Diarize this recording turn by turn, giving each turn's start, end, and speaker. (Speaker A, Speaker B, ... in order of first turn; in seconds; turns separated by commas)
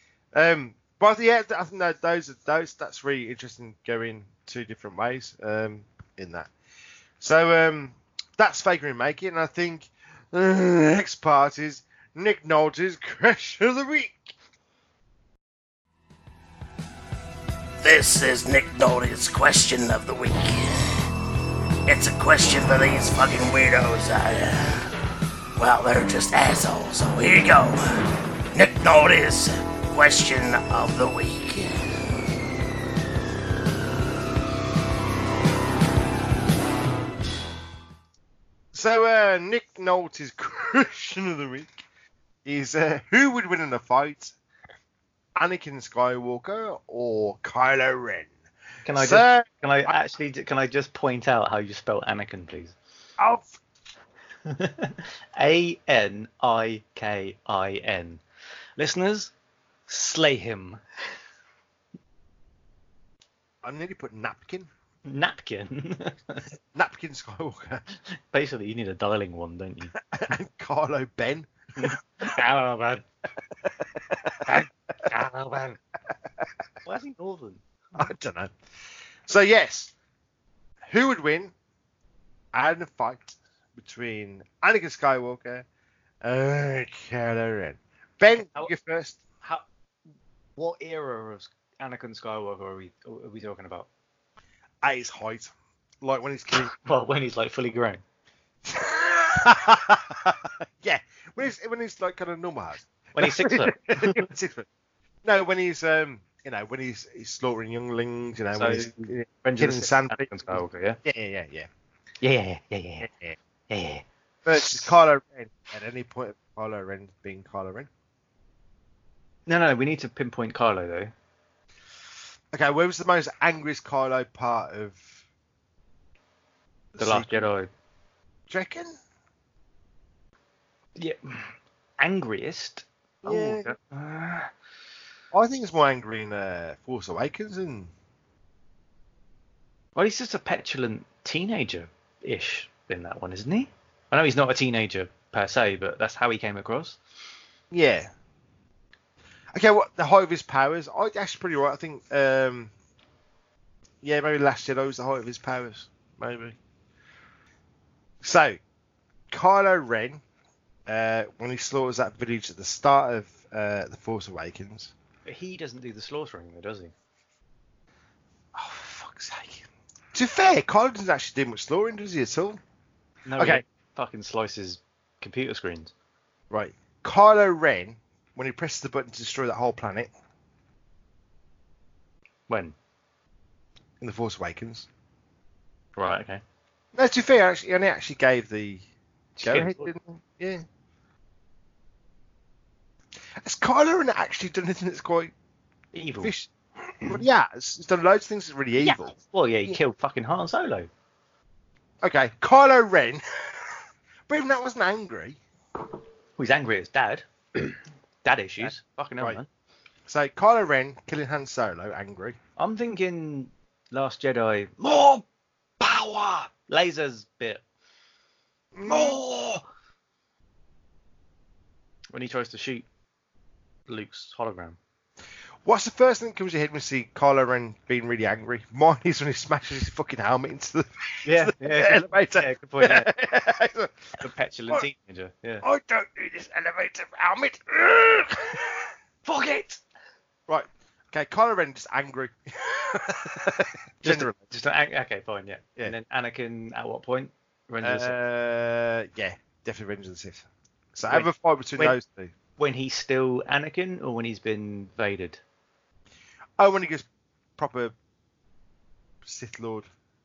Speaker A: 0.3-6.5, Speaker A: 7.2-14.3, Speaker B: 17.8-21.0, Speaker B: 21.9-24.9, Speaker B: 25.6-27.8, Speaker B: 28.5-31.9, Speaker A: 38.7-41.8, Speaker A: 42.5-44.4, Speaker A: 45.4-48.3, Speaker C: 48.9-52.8, Speaker A: 48.9-50.0, Speaker A: 53.2-53.5, Speaker C: 54.5-58.2, Speaker C: 58.8-59.3, Speaker C: 59.9-60.8, Speaker A: 63.6-64.7, Speaker C: 65.1-66.5, Speaker A: 66.7-67.8, Speaker C: 68.3-69.9, Speaker A: 70.1-71.9, Speaker C: 71.8-73.0, Speaker A: 73.7-74.7, Speaker C: 74.5-75.8, Speaker C: 76.8-77.6, Speaker A: 78.0-78.5, Speaker A: 79.3-79.9, Speaker A: 80.9-81.5, Speaker A: 82.5-85.7, Speaker A: 86.2-89.2, Speaker C: 88.4-88.7, Speaker C: 90.6-93.9, Speaker A: 94.8-96.7, Speaker C: 96.7-98.0, Speaker A: 98.7-104.7, Speaker C: 103.2-104.2, Speaker A: 105.2-111.7, Speaker C: 108.5-111.0, Speaker C: 112.2-113.1, Speaker A: 113.0-113.4, Speaker C: 113.7-114.9, Speaker A: 114.5-117.9, Speaker C: 119.5-121.1, Speaker A: 122.5-125.2, Speaker A: 126.9-127.5, Speaker C: 127.0-127.7, Speaker A: 128.5-128.9, Speaker C: 131.0-134.5, Speaker A: 133.2-133.7, Speaker A: 135.3-137.9, Speaker C: 140.0-147.0, Speaker A: 147.7-148.1, Speaker A: 149.5-152.7, Speaker A: 154.0-156.6, Speaker A: 158.2-158.6, Speaker A: 159.3-160.2, Speaker A: 160.9-164.9, Speaker C: 165.3-166.9, Speaker A: 168.6-172.6, Speaker C: 173.3-175.9, Speaker A: 173.4-173.6, Speaker A: 176.5-180.1, Speaker C: 182.5-182.8, Speaker A: 184.0-184.9, Speaker C: 186.0-186.4, Speaker A: 186.9-188.8, Speaker C: 189.4-189.9, Speaker A: 189.4-190.6, Speaker A: 193.4-195.3, Speaker C: 195.9-196.3, Speaker A: 196.2-196.5, Speaker A: 197.0-199.2, Speaker C: 198.8-200.9, Speaker A: 202.0-203.7, Speaker A: 204.3-205.4, Speaker C: 206.4-209.5, Speaker A: 208.6-209.4, Speaker A: 210.1-212.4, Speaker C: 212.6-215.2, Speaker C: 215.8-217.6, Speaker A: 218.7-219.2, Speaker C: 218.8-219.6, Speaker C: 222.1-222.9, Speaker C: 223.9-224.8, Speaker A: 225.7-234.9, Speaker C: 231.2-233.1, Speaker C: 234.2-235.7, Speaker A: 235.6-238.9, Speaker C: 239.2-239.8, Speaker A: 240.5-244.4, Speaker C: 244.0-248.2, Speaker A: 247.8-252.3, Speaker C: 251.1-252.0, Speaker C: 252.6-255.4, Speaker A: 256.6-257.1, Speaker A: 257.6-257.9, Speaker A: 259.2-259.9